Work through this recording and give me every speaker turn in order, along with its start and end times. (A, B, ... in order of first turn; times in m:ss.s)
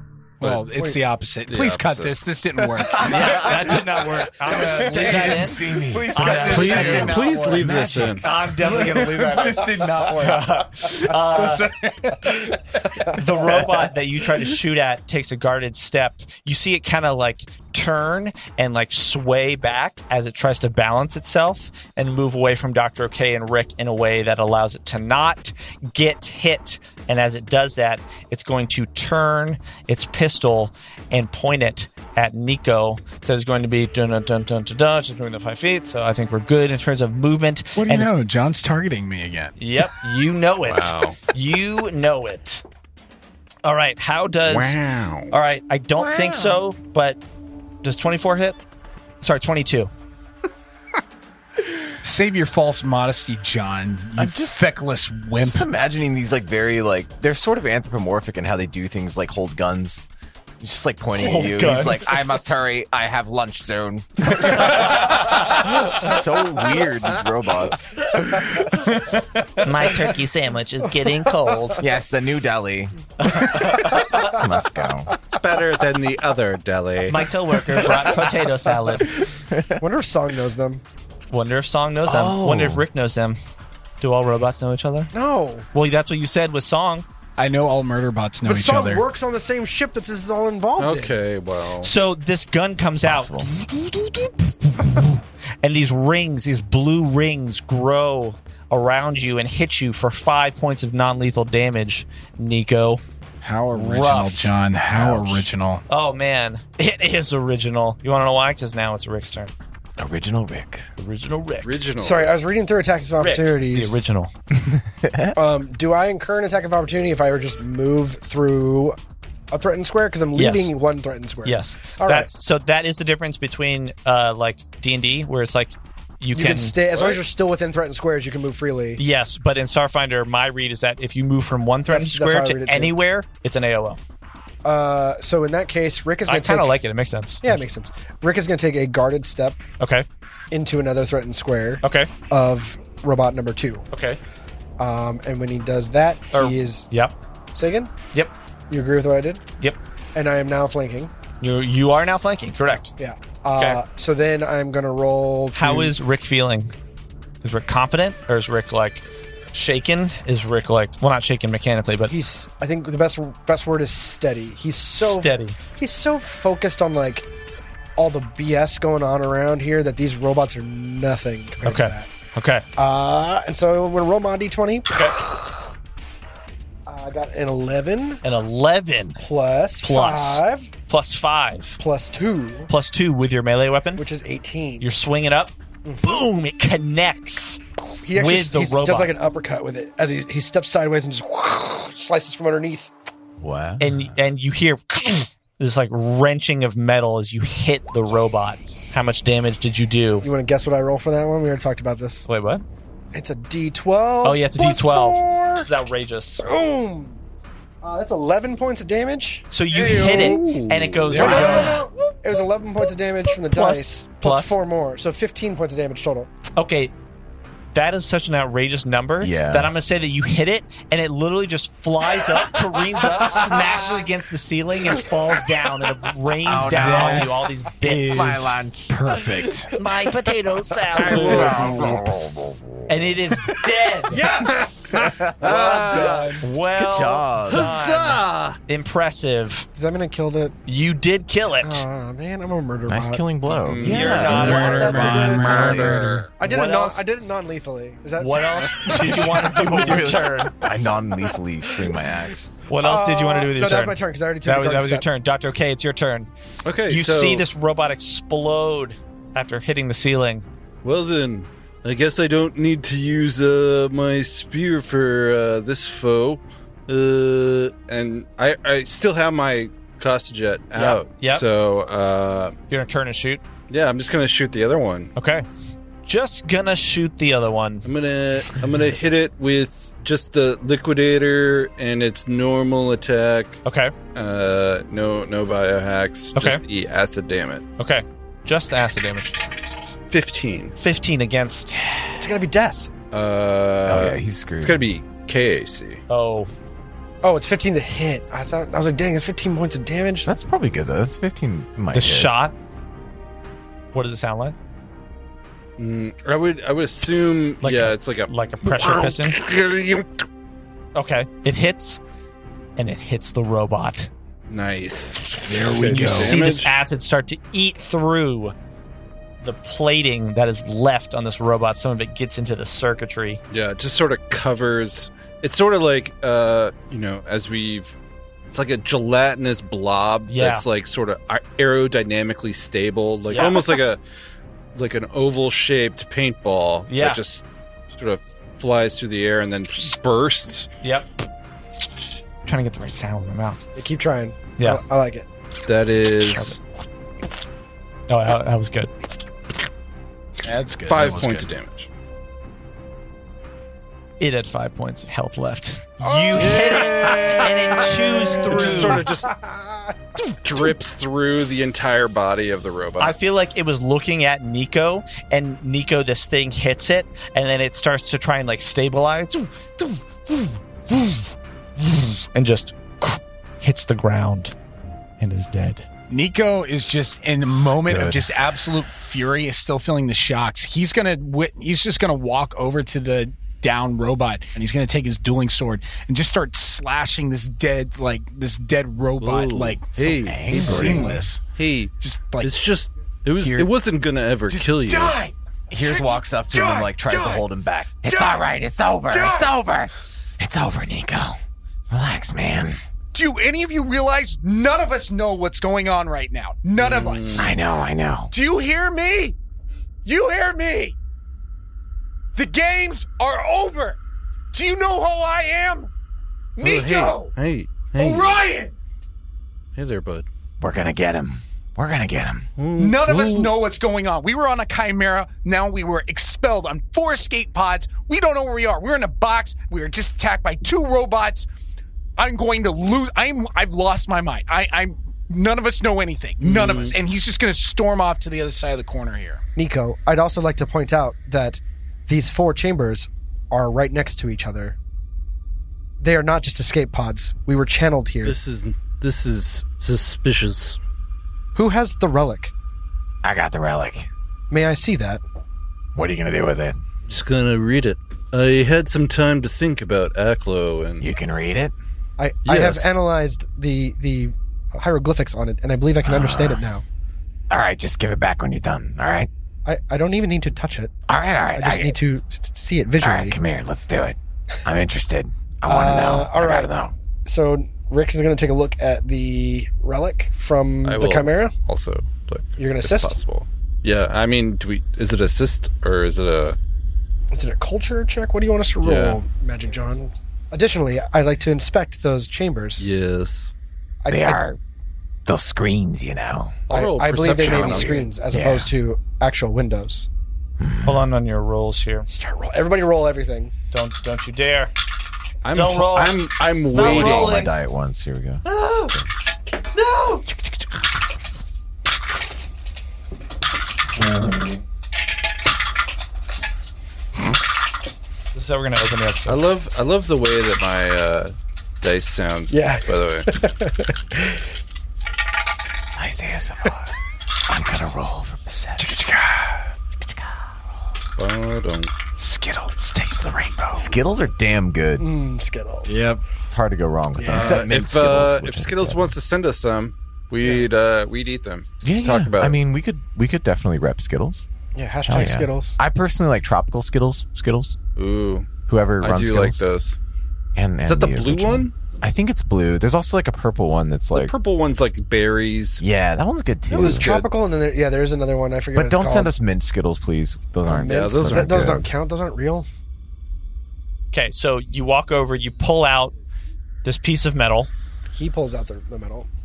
0:00.4-0:13.2 A
0:01.5-0:02.1 B
0:02.8-0:03.8 C
0:03.0-0:07.2 D
0:04.5-0:07.3 C
0:06.4-0:08.3 B
0:08.2-0:11.7 D
0:13.0-0:38.2 D
0:37.8-0:40.0 A
0:39.6-0:42.6 D
0:40.6-0:41.2 B
0:43.6-0:44.8 D
0:44.4-0:45.3 B
0:45.3-0:47.2 D
0:46.0-0:46.6 C
0:47.8-0:48.6 D
0:49.2-0:49.9 D
0:51.8-0:55.7 A
0:54.2-0:54.6 C
0:55.4-1:00.0 C
1:00.6-1:08.7 C
1:01.1-1:02.2 D
1:04.3-1:05.8 D
1:04.9-1:05.4 A
1:09.0-1:09.2 A
1:09.6-1:11.8 D
1:11.8-1:15.1 C
1:13.2-1:14.4 D
1:15.3-1:17.3 B
1:17.1-1:19.1 D
1:19.4-1:19.7 C
1:19.8-1:20.8 E
1:21.3-1:23.4 D
1:22.0-1:22.8 C
1:24.0-1:25.1 D
1:25.1-1:25.7 E
1:25.7-1:27.0 D
1:27.4-1:29.0 A
1:28.4-1:31.2 E
1:30.8-1:31.9 B
1:31.8-1:43.0 D
1:33.0-1:33.5 C
1:43.4-1:45.8 A
1:43.7-1:44.5 D
1:44.9-1:45.5 C
1:45.9-1:49.5 D
1:50.0-1:50.9 C
1:51.0-1:51.8 D
1:51.6-1:52.3 B
1:52.0-1:54.0 E
1:53.2-1:54.3 D
1:54.6-1:55.4 C
1:55.3-1:59.0 E
1:59.5-2:02.3 E
2:00.3-2:00.7 D
2:01.4-2:06.8 D
2:06.3-2:09.0 E
2:06.9-2:07.2 B
2:09.0-2:14.0 D
2:11.9-2:12.9 E
2:14.6-2:16.8 E
2:16.2-2:17.6 D
2:17.4-2:19.6 E
2:19.8-2:20.0 D
2:20.5-2:23.8 E
2:21.8-2:22.1 D
2:23.9-2:24.2 D
2:24.8-2:26.9 E
2:26.3-2:27.1 D
2:27.5-2:27.9 E
2:28.7-2:29.4 E
2:30.1-2:31.1 E
2:31.4-2:32.9 D
2:33.0-2:35.9 E
2:33.6-2:33.8 D
2:35.5-2:36.7 D
2:37.4-2:42.1 D
2:42.1-2:47.3 E
2:45.0-2:45.6 D
2:48.0-2:52.1 E
2:51.6-2:52.6 D
2:52.8-2:55.3 E
2:54.9-2:55.2 D
2:56.9-2:58.2 E
2:58.2-2:59.2 D
2:59.2-3:00.7 E
2:59.8-3:01.8 D
3:01.8-3:02.7 E
3:02.7-3:04.0 D
3:04.0-3:04.9 E
3:04.8-3:07.6 D
3:08.0-3:12.9 E
3:08.1-3:09.1 D
3:13.4-3:14.1 C
3:13.8-3:20.3 D
3:20.2-3:22.2 E
3:22.2-3:22.6 D
3:23.1-3:25.7 E
3:24.2-3:26.4 D
3:26.4-3:27.2 E
3:27.8-3:30.5 E
3:29.5-3:31.8 D
3:29.7-3:31.8 B
3:31.1-3:36.3 E
3:31.2-3:31.6 A
3:33.4-3:34.5 D
3:36.5-3:36.9 D
3:37.7-3:48.6 D
3:39.2-3:39.7 C
3:46.4-3:47.3 C
3:46.6-3:47.3 A
3:47.9-3:49.7 C
3:47.9-3:48.4 A
3:49.7-3:51.7 D
3:51.0-3:53.1 C
3:51.0-3:51.8 B
3:51.2-3:52.0 A
3:52.9-3:54.2 D
3:54.1-3:56.5 A
3:54.1-3:54.8 E
3:54.4-3:56.3 B
3:55.0-3:56.1 C
3:55.5-3:59.7 D
3:56.7-3:57.7 C
3:57.5-3:58.6 B
3:59.8-4:00.6 E
4:00.6-4:01.8 D
4:01.6-4:03.2 E
4:02.9-4:05.4 C
4:03.5-4:06.3 B
4:03.8-4:05.5 D
4:04.2-4:06.3 A
4:04.2-4:09.4 E
4:06.4-4:07.0 D
4:08.2-4:10.5 D
4:08.8-4:12.5 C
4:12.7-4:16.3 D
4:12.8-4:15.1 E
4:16.6-4:17.5 B
4:16.9-4:20.4 D
4:20.8-4:32.5 B
4:30.7-4:31.4 D
4:32.7-4:33.4 D
4:33.7-4:35.1 B
4:35.2-4:35.4 D
4:36.0-4:37.9 D
4:37.8-4:43.6 B
4:43.6-4:43.9 D
4:44.1-4:47.6 B
4:46.3-4:46.6 D
4:47.8-4:49.4 D
4:50.1-4:50.8 B
4:50.8-4:51.8 D
4:52.1-4:52.9 E
4:53.1-4:56.0 B
4:53.8-4:54.8 C
4:56.1-4:56.5 D
4:57.2-5:00.3 E
5:00.2-5:02.3 C
5:01.9-5:02.6 D
5:03.9-5:04.6 D
5:05.8-5:10.2 B
5:07.6-5:09.4 D
5:10.9-5:12.0 D
5:12.8-5:14.1 D
5:14.5-5:16.8 B
5:15.4-5:16.4 A
5:15.6-5:18.5 D
5:19.4-5:23.4 D
5:23.5-5:28.0 B
5:28.5-5:34.0 B
5:30.3-5:30.6 D
5:33.3-5:33.8 D
5:34.7-5:40.7 B
5:36.9-5:37.2 D
5:40.8-5:41.1 D
5:42.4-5:43.6 D
5:43.8-5:45.3 E
5:45.6-5:46.6 B
5:46.2-5:46.6 D
5:48.1-5:49.1 D
5:50.4-5:51.5 A
5:50.8-5:51.9 B
5:54.2-5:59.1 D
5:56.0-5:57.0 E
5:56.4-5:59.4 B
5:59.3-5:59.9 E
6:00.2-6:03.2 B
6:03.0-6:14.5 D
6:15.2-6:15.8 D
6:16.1-6:31.4 A
6:17.8-6:18.3 C
6:29.2-6:35.2 B
6:30.2-6:31.2 C
6:32.0-6:32.5 A
6:33.4-6:33.7 A
6:34.5-6:37.5 A
6:35.7-6:41.4 C
6:38.0-6:38.5 A
6:39.1-6:39.5 A
6:41.9-6:42.8 C
6:43.1-6:47.5 A
6:46.8-6:47.5 B
6:47.3-6:48.3 C
6:48.3-6:49.4 A
6:50.0-6:51.0 A
6:52.3-6:54.0 A
6:54.5-6:55.9 A
6:56.6-6:57.3 A
6:56.6-6:58.4 B
6:58.0-6:58.7 A
6:59.7-7:00.2 B
7:00.6-7:02.5 C
7:02.6-7:03.5 B
7:02.8-7:11.5 A
7:12.2-7:19.4 A
7:16.4-7:16.9 B
7:19.6-7:24.8 E
7:26.0-7:28.4 E
7:28.2-7:30.8 B
7:31.5-7:32.5 E
7:33.2-7:34.1 C
7:34.5-7:35.2 E
7:35.9-7:36.8 C
7:37.1-7:41.0 B
7:41.0-7:41.7 C
7:42.2-7:46.8 E
7:42.4-7:42.9 B
7:46.0-7:46.6 C
7:47.5-7:49.3 C
7:49.6-7:50.9 E
7:51.1-7:52.0 C
7:51.5-7:53.4 E
7:53.0-7:56.9 C
7:55.7-7:56.7 E
7:57.2-8:01.5 E
8:00.8-8:06.6 B
8:02.6-8:03.2 E
8:07.3-8:12.9 E
8:08.8-8:09.2 B
8:12.8-8:13.5 B
8:14.0-8:14.4 E
8:14.1-8:14.6 C
8:15.2-8:16.6 C
8:16.7-8:18.1 B
8:16.7-8:20.1 E
8:17.3-8:18.7 C
8:20.6-8:21.0 C
8:20.8-8:22.1 D
8:22.1-8:23.5 E
8:23.7-8:24.7 D
8:25.4-8:27.4 B
8:25.5-8:27.5 D
8:26.7-8:28.4 C
8:38.3-8:39.4 D
8:39.2-8:43.3 B
8:42.5-8:44.4 E
8:45.9-8:46.8 C
8:47.4-8:48.9 C
8:48.8-8:49.7 A
8:51.2-8:51.9 B
8:52.2-8:55.1 C
8:55.0-8:56.1 E
8:55.9-8:56.2 B
8:56.4-8:59.1 C
8:57.2-8:57.6 E
8:57.2-9:02.6 B
9:01.8-9:04.4 C
9:04.7-9:05.8 E
9:05.0-9:07.8 C
9:08.0-9:08.5 B
9:08.7-9:09.6 C
9:09.0-9:10.0 B
9:10.6-9:14.3 C
9:10.8-9:11.7 B
9:14.1-9:15.8 B
9:15.8-9:17.2 C
9:16.7-9:19.3 E
9:16.7-9:17.3 B
9:18.7-9:21.9 C
9:20.7-9:22.6 E
9:20.8-9:21.7 B
9:24.1-9:26.1 D
9:26.8-9:27.7 D
9:28.1-9:29.3 E